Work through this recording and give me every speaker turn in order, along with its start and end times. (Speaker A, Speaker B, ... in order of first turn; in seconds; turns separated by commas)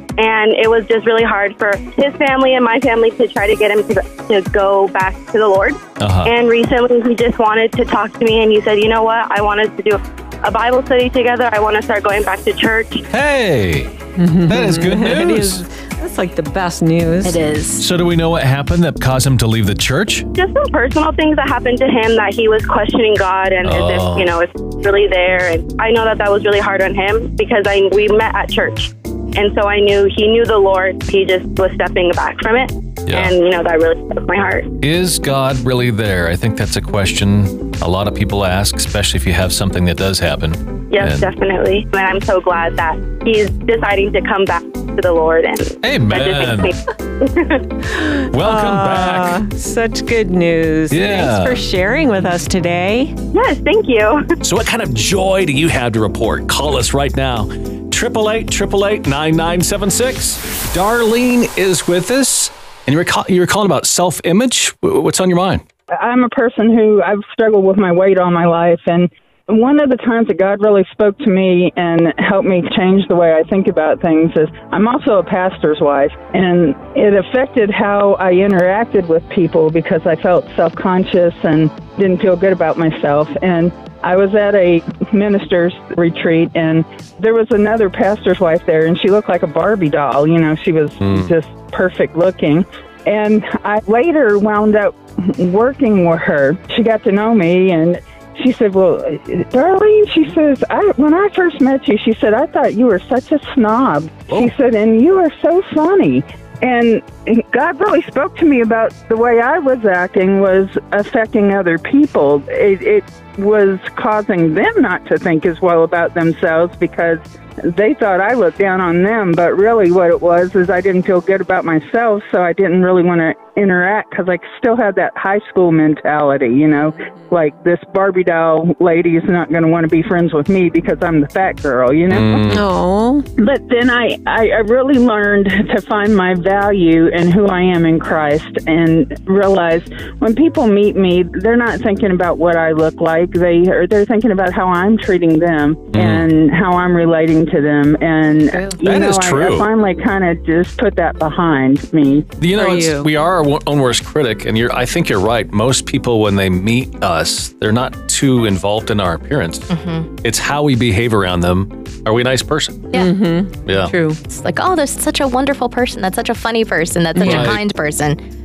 Speaker A: 0.2-13.0, Speaker B: 6.0-6.3, Speaker B: 13.1-15.6, Speaker C: 14.2-17.4, Speaker D: 17.2-17.9, Speaker B: 17.8-20.3, Speaker A: 20.3-34.7, Speaker B: 23.6-24.3, Speaker B: 33.1-33.3, Speaker B: 34.8-41.3, Speaker A: 40.9-47.6, Speaker B: 45.8-46.7, Speaker B: 48.3-49.4, Speaker C: 48.4-53.1, Speaker B: 50.9-51.6, Speaker A: 53.3-54.2, Speaker B: 54.4-65.6, Speaker E: 66.0-132.6, Speaker B: 91.0-91.3, Speaker B: 132.1-132.6, Speaker C: 132.4-133.2, Speaker E: 133.4-152.3, Speaker B: 145.9-146.3, Speaker D: 148.6-148.8, Speaker B: 148.8-149.7, Speaker B: 152.4-159.7, Speaker C: 152.5-153.1, Speaker D: 159.7-160.1, Speaker B: 160.2-162.9, Speaker D: 162.9-163.2, Speaker C: 162.9-164.2, Speaker B: 163.6-164.0, Speaker D: 164.3-168.2, Speaker B: 167.2-167.6, Speaker C: 167.2-167.5